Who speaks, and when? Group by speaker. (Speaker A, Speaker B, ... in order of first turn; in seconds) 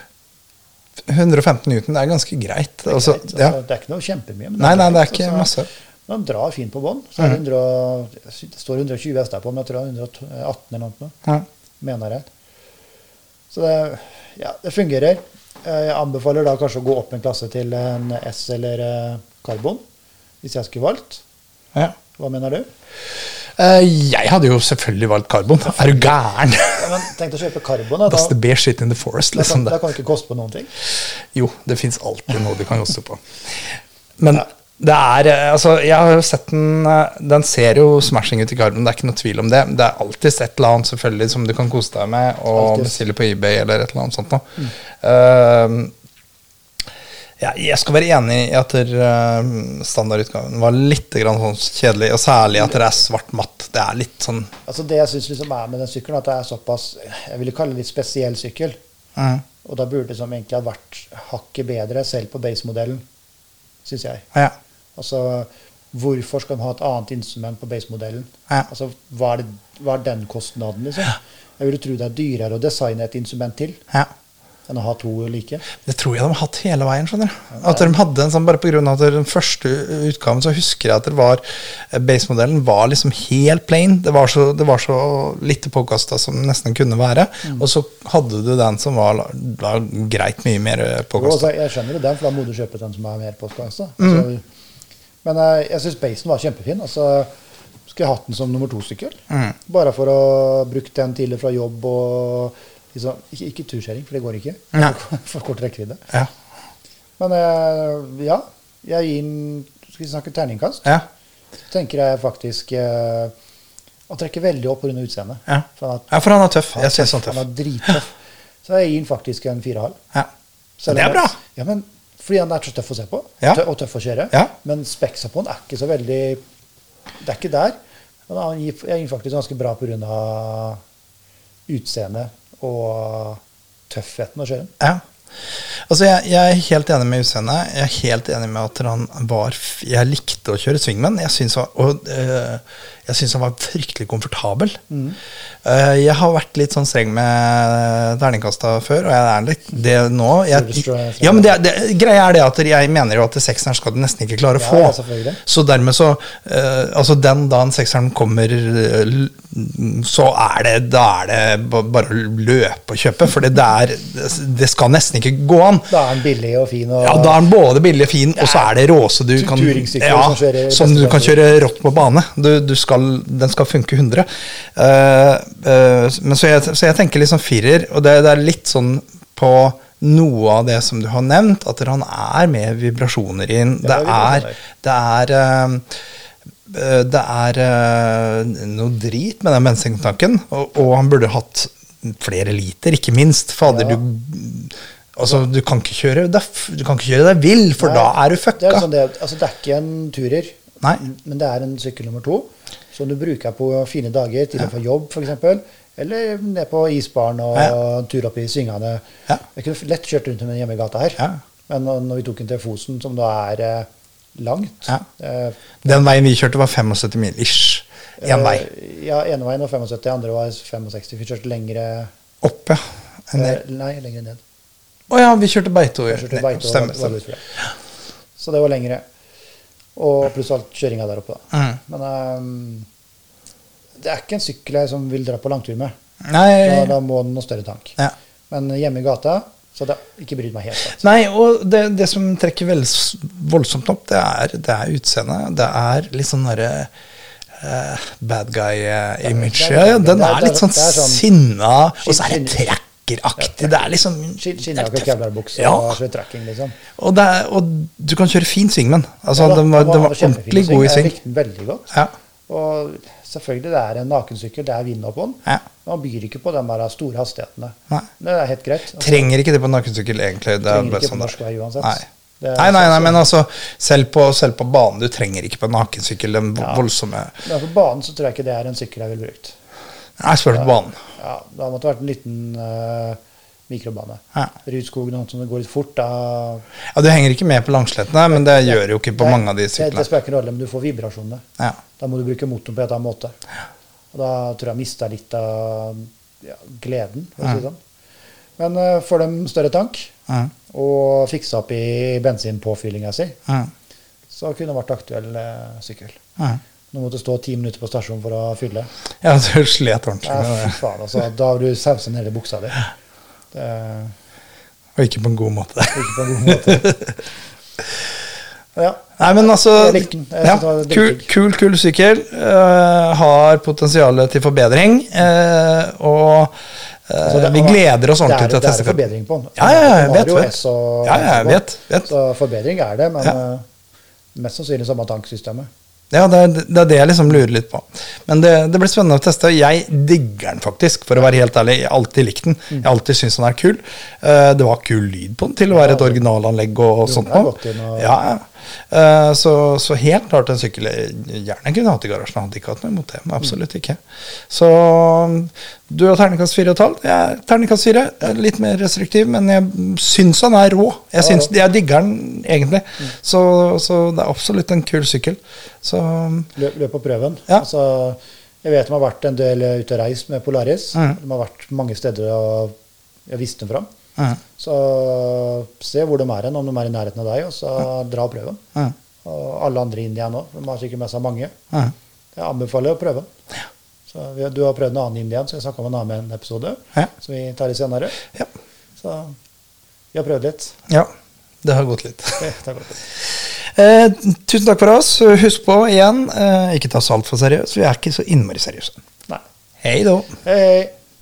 Speaker A: 1.1-3.6, 4.6-5.7, 23.6-26.9, 28.1-29.8, 31.3-33.2, 34.2-45.9, 47.4-54.5, 59.2-59.4, 75.8-91.5, 94.0-94.2, 115.5-117.4, 120.9-121.4, 135.9-144.8, 145.6-165.9, 167.0-185.8, 186.7-198.9, 215.8-218.7, 222.4-223.6, 225.1-227.2, 231.5-231.8, 236.3-236.9, 241.0-246.9, 247.6-256.0, 257.0-261.2, 269.0-272.1, 272.6-277.4, 280.2-281.0, 286.9-290.0, 309.2-310.8, 315.0-317.2, 319.2-326.6, 327.1-329.0, 329.6-332.1, 336.1-366.5, 391.6-392.5, 393.6-399.0, 399.8-400.4
Speaker B: 2.9-5.6, 6.1-11.2, 11.8-12.3, 13.5-19.8, 20.4-21.2, 22.2-22.7, 26.8-28.4, 29.3-30.7, 42.5-43.0, 54.7-58.8, 59.6-63.0, 63.9-64.3, 65.0-73.8, 74.7-75.6, 77.5-78.0, 91.2-94.4, 95.2-97.3, 97.9-106.0, 107.2-111.0, 111.7-113.3, 114.1-116.1, 116.7-120.0, 120.8-126.4, 127.2-127.8, 128.3-130.8, 131.7-134.7, 144.9-145.2, 150.5-151.6, 154.6-155.4, 165.9-167.4, 169.3-171.6, 183.8-184.6, 193.7-194.0, 197.8-209.0, 209.5-216.0, 218.2-222.1, 223.3-224.4, 226.1-227.4, 228.4-229.0, 230.0-232.9, 234.0-235.9, 236.6-238.0, 238.5-241.0, 249.2-251.2, 252.0-252.7, 253.4-253.8, 254.3-256.8, 259.4-261.9, 262.5-269.3, 270.6-273.2, 276.6-276.8, 277.4-279.6, 280.5-286.6, 288.3-291.4, 292.0-293.3, 294.1-297.8, 298.6-300.1, 300.7-303.4, 304.3-306.2, 306.9-308.9, 310.2-312.9, 313.5-314.1, 315.9-316.9, 318.8-321.3, 327.2-333.6, 334.4-335.7, 345.7-346.3, 347.0-348.1, 361.2-361.5, 366.6-372.7, 373.3-373.9, 374.6-378.6, 379.2-381.5, 382.4-383.3, 384.1-388.2, 389.0-389.4, 390.1-390.8, 392.4-393.0, 400.4-400.9